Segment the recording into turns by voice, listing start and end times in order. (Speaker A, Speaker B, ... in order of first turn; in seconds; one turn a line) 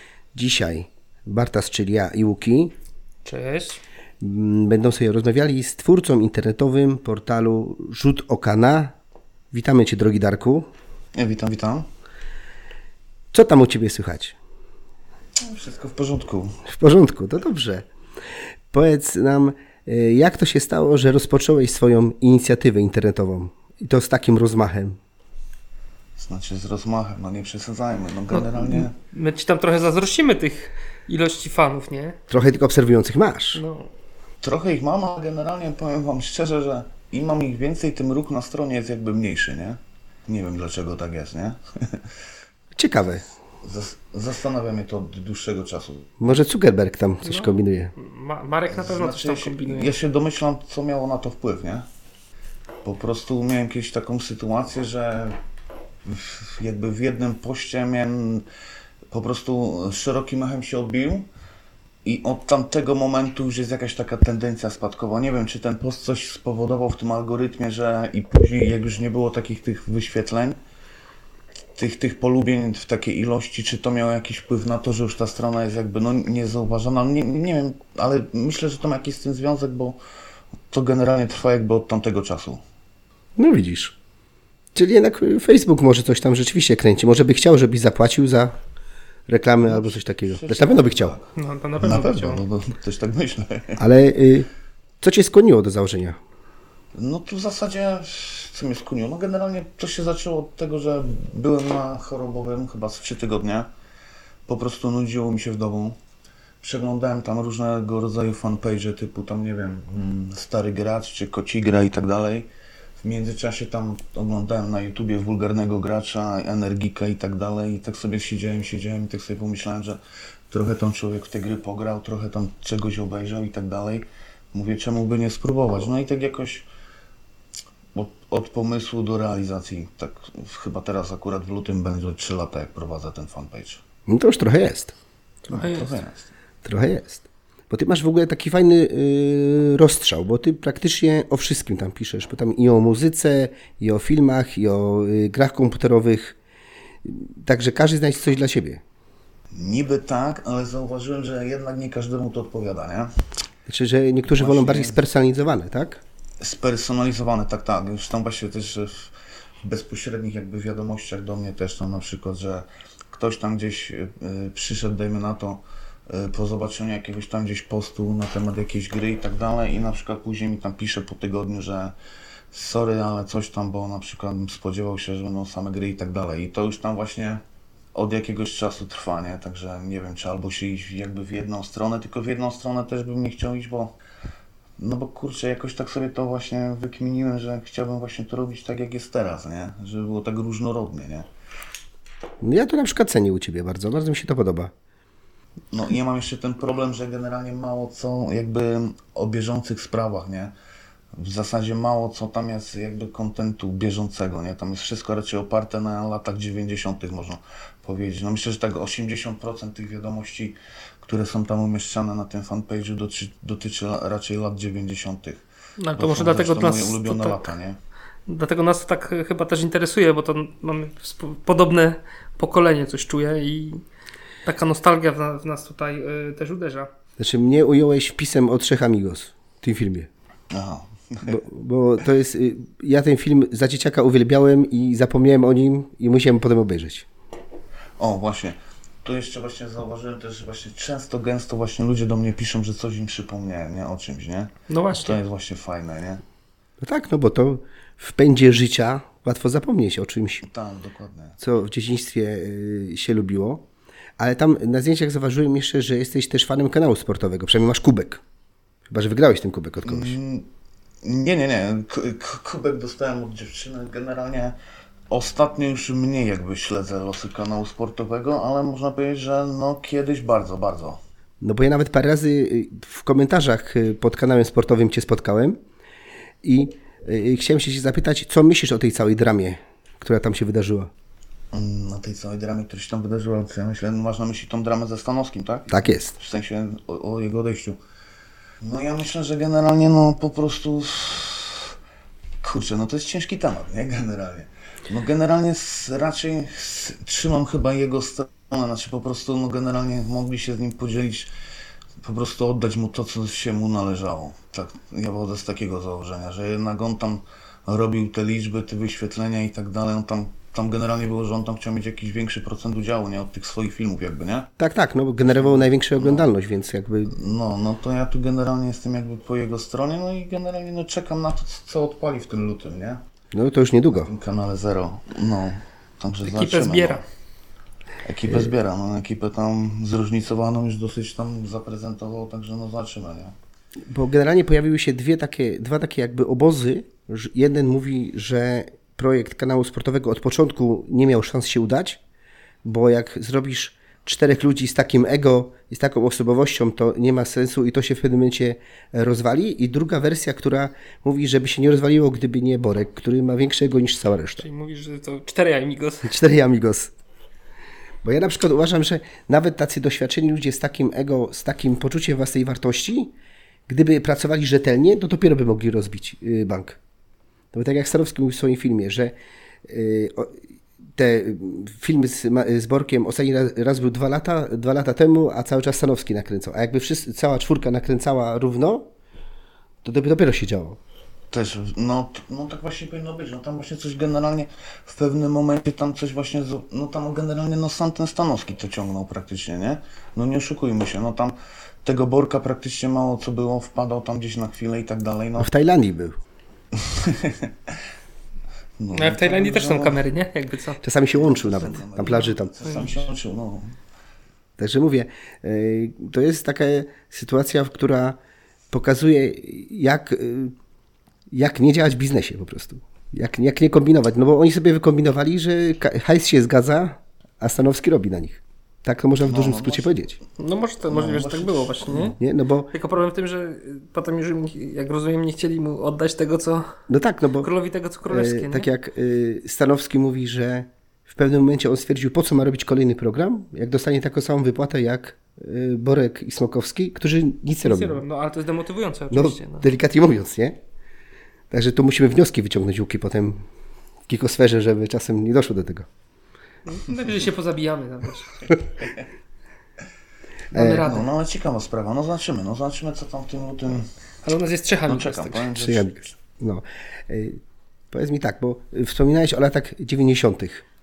Speaker A: 0.3-2.7
Speaker B: 3.2-3.8
Speaker A: 4.2-8.9
Speaker A: 9.5-10.7
Speaker C: 11.1-11.9
Speaker A: 13.3-14.3
Speaker C: 15.4-16.6
Speaker A: 16.6-17.9
Speaker A: 18.7-25.0
Speaker C: 26.2-28.9
Speaker B: 28.3-32.2
Speaker A: 32.3-33.6
Speaker B: 33.5-33.9
Speaker C: 34.4-42.0
Speaker A: 42.7-43.2
Speaker C: 43.6-46.2
Speaker A: 46.2-47.9
Speaker B: 47.2-49.9
Speaker C: 48.7-51.9
Speaker C: 52.8-55.4
Speaker C: 56.0-58.5
Speaker C: 59.1-61.3
Speaker C: 62.0-70.6
Speaker C: 71.7-80.0
Speaker C: 80.7-82.6
Speaker A: 83.4-83.9
Speaker A: 84.7-88.6
Speaker A: 89.3-91.2
Speaker C: 89.6-93.8
Speaker B: 91.3-92.4
Speaker A: 93.8-94.5
Speaker A: 95.0-96.2
Speaker C: 96.9-103.7
Speaker C: 104.5-106.0
Speaker C: 106.6-112.5
Speaker C: 113.0-120.0
Speaker C: 120.5-126.7
Speaker C: 127.9-133.8
Speaker A: 134.1-134.9
Speaker B: 135.5-135.9
Speaker C: 135.5-136.3
Speaker A: 136.6-146.3
Speaker A: 147.0-148.8
Speaker C: 149.5-153.1
Speaker A: 153.7-156.0
Speaker C: 154.2-155.0
Speaker C: 156.4-159.1
Speaker C: 159.6-171.9
Speaker C: 172.5-177.4
Speaker C: 177.9-183.9
Speaker C: 184.8-191.3
Speaker A: 192.4-194.7
Speaker C: 195.7-200.5
Speaker C: 201.2-215.4
Speaker B: 215.8-217.5
Speaker C: 215.9-217.8
Speaker B: 218.3-223.8
Speaker B: 224.4-226.9
Speaker A: 227.2-230.1
Speaker C: 230.5-231.3
Speaker A: 231.2-237.1
Speaker C: 238.0-246.2
Speaker B: 244.7-245.2
Speaker A: 246.8-250.5
Speaker C: 250.4-251.3
Speaker A: 251.4-253.6
Speaker A: 254.2-258.2
Speaker A: 258.9-260.2
Speaker C: 259.8-260.5
Speaker C: 261.0-264.6
Speaker C: 265.1-271.0
Speaker A: 271.4-275.6
Speaker A: 276.4-280.9
Speaker C: 281.5-287.8
Speaker A: 285.7-286.1
Speaker C: 288.6-291.7
Speaker C: 292.4-301.3
Speaker C: 302.0-314.5
Speaker A: 314.6-317.2
Speaker C: 315.3-316.3
Speaker C: 317.1-323.0
Speaker A: 323.3-324.1
Speaker C: 323.9-327.0
Speaker B: 326.2-327.0
Speaker C: 328.0-333.3
Speaker A: 333.9-342.0
Speaker A: 342.6-354.4
Speaker B: 354.4-356.2
Speaker A: 356.0-356.9
Speaker A: 358.0-363.1
Speaker A: 363.7-366.8
Speaker A: 367.5-370.4
Speaker A: 370.9-378.9
Speaker A: 379.8-380.8
Speaker C: 381.3-395.5
Speaker A: 395.4-396.2
Speaker C: 396.8-397.7
Speaker C: 398.8-400.0
Speaker B: 398.9-400.8
Speaker A: 400.8-402.8
Speaker C: 401.1-403.7
Speaker B: 402.0-402.9
Speaker A: 404.6-408.2
Speaker A: 408.7-410.5
Speaker A: 411.3-420.1
Speaker C: 419.2-420.1
Speaker B: 420.4-422.2
Speaker C: 420.9-422.2
Speaker A: 422.2-422.7
Speaker B: 422.7-426.8
Speaker A: 426.9-427.5
Speaker B: 427.4-428.7
Speaker A: 428.1-438.0
Speaker B: 437.6-439.7
Speaker A: 439.1-440.6
Speaker A: 441.5-443.4
Speaker A: 444.1-445.9
Speaker B: 446.6-448.4
Speaker A: 450.5-450.9
Speaker B: 450.5-451.1
Speaker C: 450.7-453.9
Speaker B: 454.2-455.5
Speaker C: 454.9-456.1
Speaker A: 455.5-457.4
Speaker A: 457.9-460.6